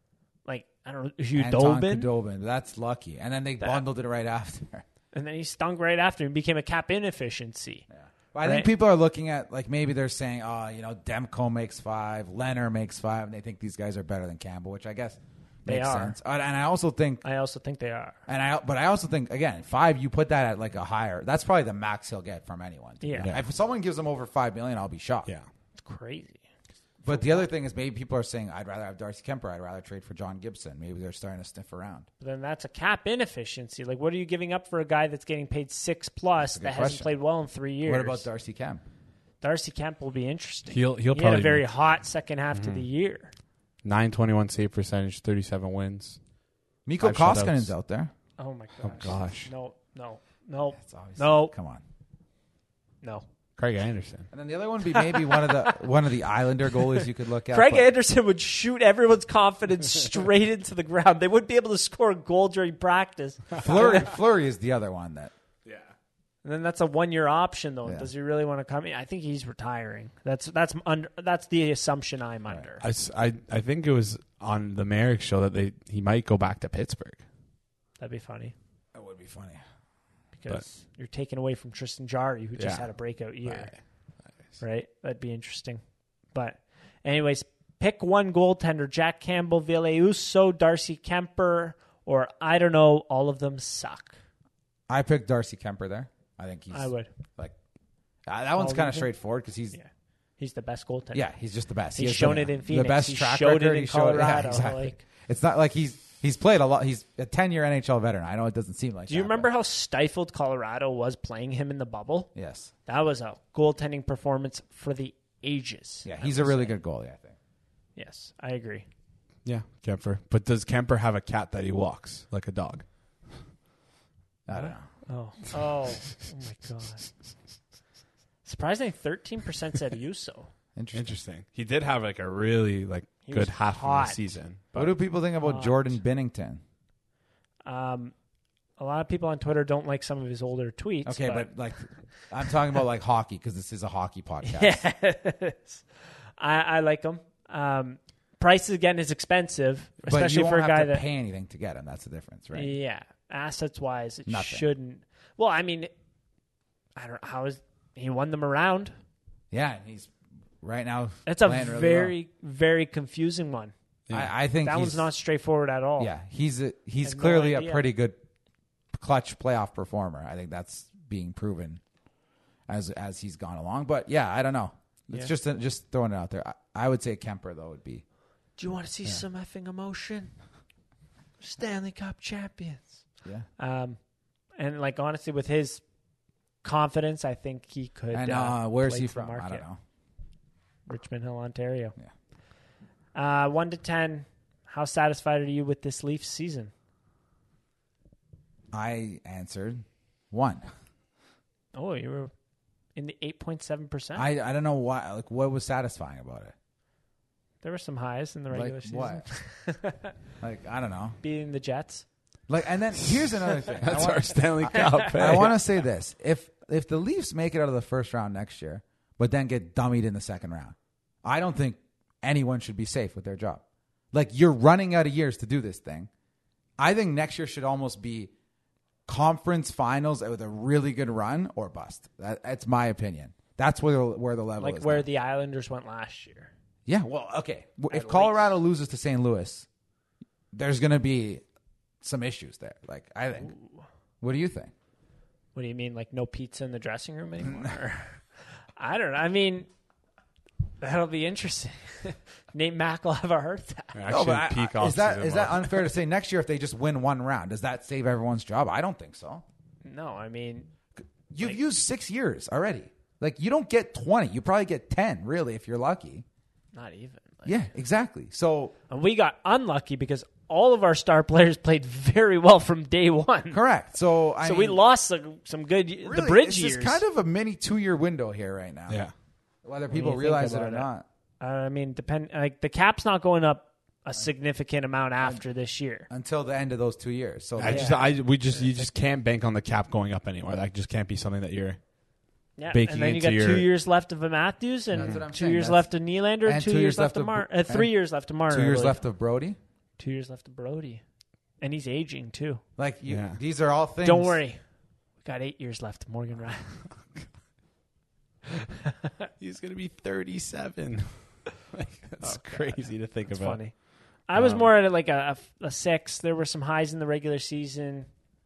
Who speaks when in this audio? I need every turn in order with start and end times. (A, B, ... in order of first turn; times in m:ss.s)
0:00.4-0:02.1 A
0:01.3-0:04.8 B
0:05.1-0:07.8 A
0:07.9-0:17.2 B
0:08.4-0:08.7 A
0:15.6-0:16.2 A
0:17.2-0:18.2 A
0:18.3-0:25.3 B
0:23.0-0:23.3 A
0:25.8-0:26.4 A
0:27.0-0:32.1 B
0:27.0-0:27.4 A
0:32.2-0:38.2 A
0:36.4-0:37.1 B
0:37.8-0:38.8 B
0:39.4-0:43.3 A
0:40.7-0:41.7 C
0:42.5-0:42.8 C
0:43.8-0:46.2 C
0:46.8-0:48.1 B
0:47.0-0:47.7 C
0:48.4-0:51.5 A
0:48.8-0:49.5 C
0:50.8-0:51.8 B
0:53.6-0:54.3 C
0:54.3-0:57.9 B
0:54.9-0:55.8 A
0:57.5-1:04.1 A
1:03.6-1:05.3 B
1:06.4-1:12.8 A
1:12.8-1:17.2 C
1:18.0-1:18.5 A
1:18.9-1:19.6 B
1:20.3-1:23.7 A
1:22.6-1:22.9 C
1:23.4-1:23.8 C
1:24.6-1:25.8 A
1:26.3-1:34.2 A
1:34.9-1:37.5 B
1:36.7-1:37.1 A
1:38.3-1:39.8 B
1:38.6-1:39.1 A
1:39.7-1:41.3 A
1:41.1-1:49.5 B
1:41.9-1:45.0 A
1:49.1-1:52.3 A
1:52.3-1:52.7 B
1:52.8-1:56.7 A
1:56.0-1:57.4 B
1:58.0-1:58.8 A
1:59.4-2:02.8 C
2:04.5-2:04.8 B
2:04.5-2:07.1 A
2:08.4-2:10.5 A
2:10.8-2:11.2 B
2:10.9-2:14.9 C
2:13.2-2:14.2 A
2:14.8-2:16.6 B
2:15.4-2:15.9 A
2:17.6-2:18.1 A
2:18.8-2:21.5 A
2:21.0-2:24.8 B
2:24.4-2:25.8 A
2:26.4-2:31.0 A
2:30.1-2:32.7 B
2:32.5-2:35.9 A
2:34.3-2:34.6 B
2:37.0-2:38.9 A
2:39.5-2:42.1 B
2:41.2-2:43.7 A
2:44.1-2:45.1 B
2:44.6-2:46.1 A
2:46.0-2:48.2 B
2:47.0-2:47.8 A
2:48.9-2:51.8 B
2:52.7-2:58.0 B
2:58.6-3:00.3 A
3:01.4-3:03.0 A
3:03.6-3:04.0 A
3:04.6-3:05.8 A
3:06.6-3:09.6 A
3:08.1-3:09.8 B
3:10.9-3:11.9 A
3:13.1-3:16.7 A
3:18.7-3:20.6 B
3:21.7-3:22.3 A
3:22.9-3:24.3 A
3:24.1-3:26.5 B
3:27.6-3:30.1 A
3:28.5-3:29.3 B
3:30.4-3:31.2 B
3:31.2-3:32.0 A
3:32.5-3:46.1 B
3:33.8-3:35.6 C
3:34.8-3:35.0 A
3:46.8-3:48.3 B
3:49.1-3:55.0 B
3:54.6-3:56.5 A
3:56.8-3:59.7 B
3:57.9-3:58.5 A
4:00.5-4:01.4 B
4:02.0-4:03.5 B
4:04.2-4:04.7 B
4:05.5-4:08.2 A
4:07.4-4:07.7 B
4:08.8-4:09.7 A
4:10.8-4:14.0 A
4:13.9-4:15.8 C
4:14.1-4:19.4 B
4:19.8-4:20.7 A
4:21.3-4:26.2 B
4:26.7-4:27.6 A
4:27.4-4:28.7 B
4:28.9-4:33.6 A
4:33.5-4:34.8 B
4:34.4-4:37.0 A
4:36.0-4:39.0 B
4:39.6-4:41.0 B
4:39.9-4:40.9 A
4:41.4-4:46.1 A
4:46.1-4:48.0 B
4:47.6-4:51.8 C
4:47.6-4:48.1 A
4:52.6-4:59.0 A
4:52.7-4:53.7 C
4:54.9-4:55.9 B
4:56.4-4:57.9 B
4:58.5-4:59.6 B
5:00.0-5:01.0 A
5:01.6-5:02.6 A
5:02.8-5:04.4 B
5:03.1-5:03.4 C
5:04.0-5:04.6 A
5:05.2-5:06.9 A
5:08.8-5:09.1 A
5:09.4-5:13.6 C
5:12.2-5:13.8 A
5:14.3-5:18.1 A
5:14.3-5:14.7 C